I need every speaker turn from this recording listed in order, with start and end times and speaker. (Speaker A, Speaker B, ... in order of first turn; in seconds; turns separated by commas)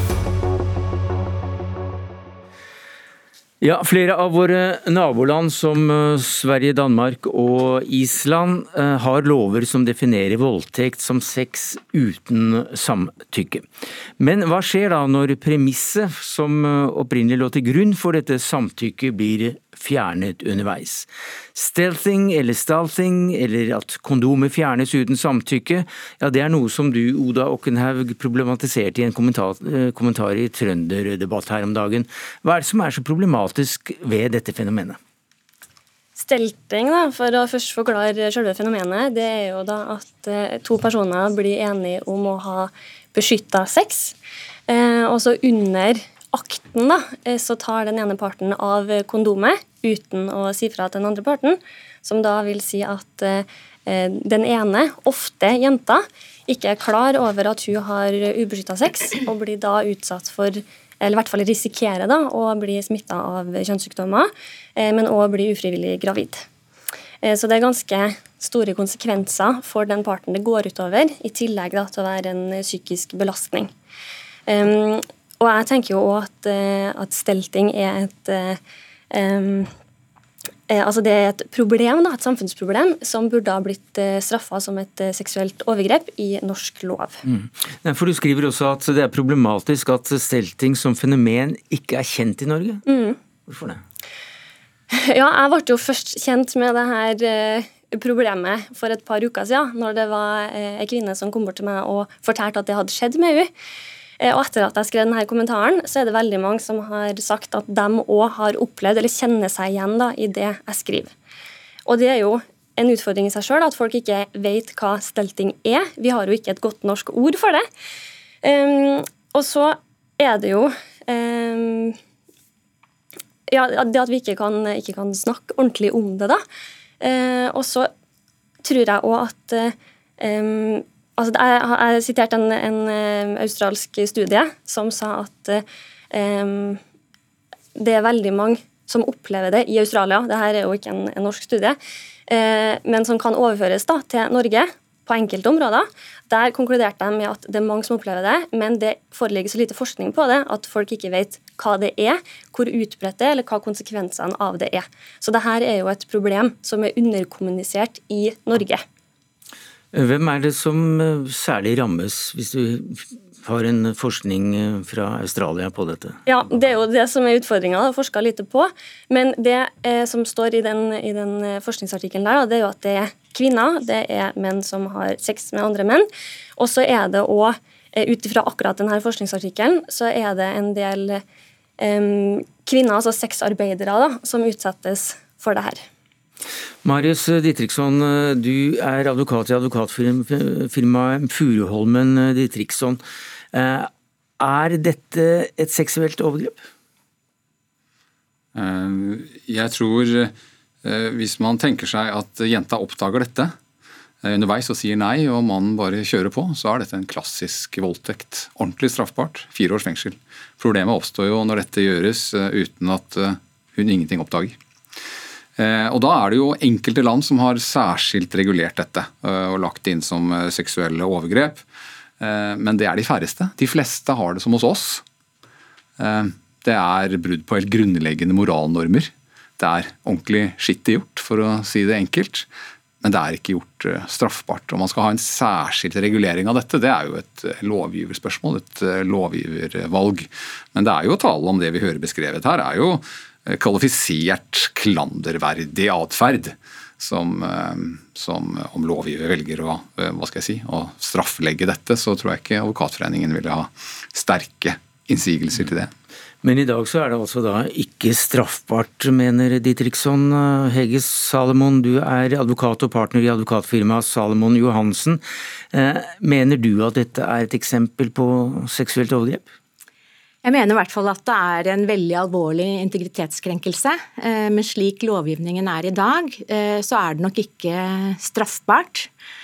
Speaker A: 3.6-13.7, Speaker A: 14.2-35.0, Speaker B: 36.1-44.1, Speaker B: 44.7-66.5, Speaker B: 67.2-73.7, Speaker B: 74.5-79.7, Speaker B: 80.7-87.2, Speaker A: 87.2-92.8, Speaker B: 92.9-93.2, Speaker A: 93.5-93.8, Speaker B: 94.9-103.5, Speaker B: 104.2-111.1, Speaker B: 111.8-117.6, Speaker B: 118.4-122.0, Speaker B: 123.5-126.4, Speaker B: 127.0-127.9, Speaker B: 128.6-136.8, Speaker B: 137.8-158.8, Speaker A: 159.9-166.2, Speaker B: 166.2-181.2, Speaker B: 181.8-185.8, Speaker A: 186.8-193.0, Speaker A: 193.5-196.6, Speaker C: 198.5-203.5, Speaker C: 204.2-214.6, Speaker C: 215.6-221.6, Speaker C: 222.2-225.0, Speaker C: 226.0-232.5, Speaker C: 233.0-255.9, Speaker A: 256.4-269.5, Speaker D: 270.4-279.1